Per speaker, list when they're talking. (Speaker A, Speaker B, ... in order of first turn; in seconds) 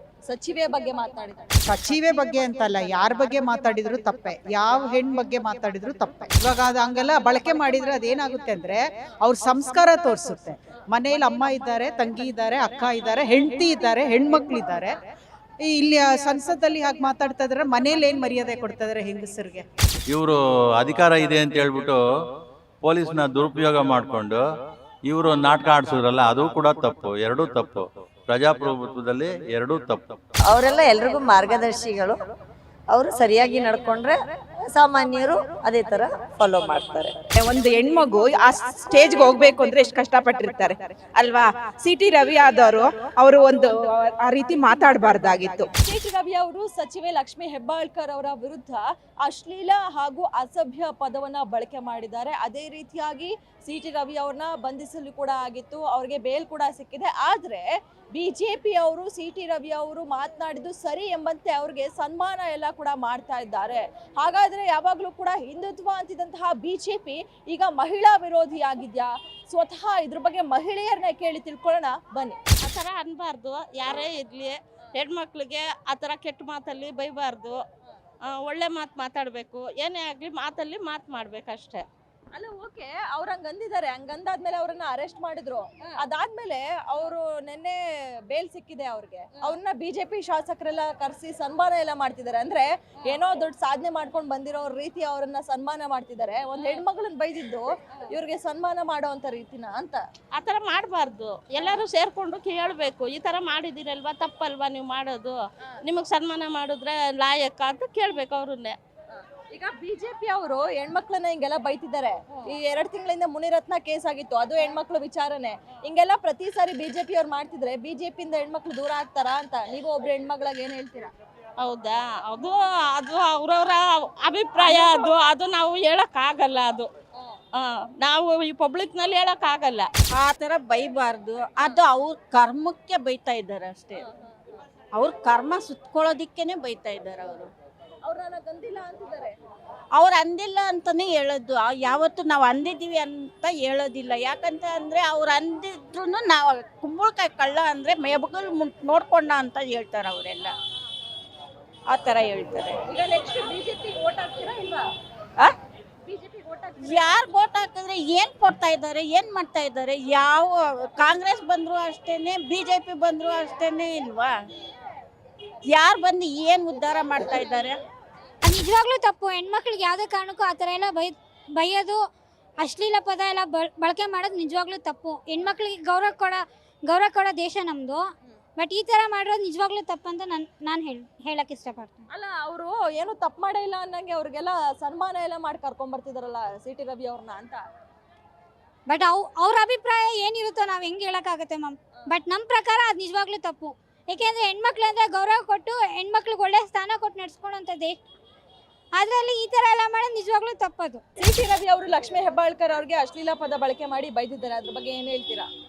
Speaker A: 0.3-1.5, 45.8-72.4, 82.3-100.0, 109.5-121.1, 124.6-125.1, 138.1-139.3, 152.9-154.8, 156.1-157.1, 182.1-187.6, 201.2-205.5
Speaker B: 1.7-15.0, 15.7-19.6
Speaker C: 20.1-22.0, 22.8-24.4, 25.1-30.3
Speaker D: 30.5-32.3, 32.9-37.3
Speaker E: 37.4-45.7
Speaker F: 72.6-77.6, 78.2-81.9, 100.3-108.8, 121.6-126.9, 127.5-129.9
Speaker G: 130.1-134.0, 134.9-137.5, 139.9-150.5, 151.9-152.8, 156.8-164.4, 165.7-167.8
Speaker H: 168.4-172.1, 172.6-178.1, 178.6-182.1, 188.9-198.0, 198.9-201.0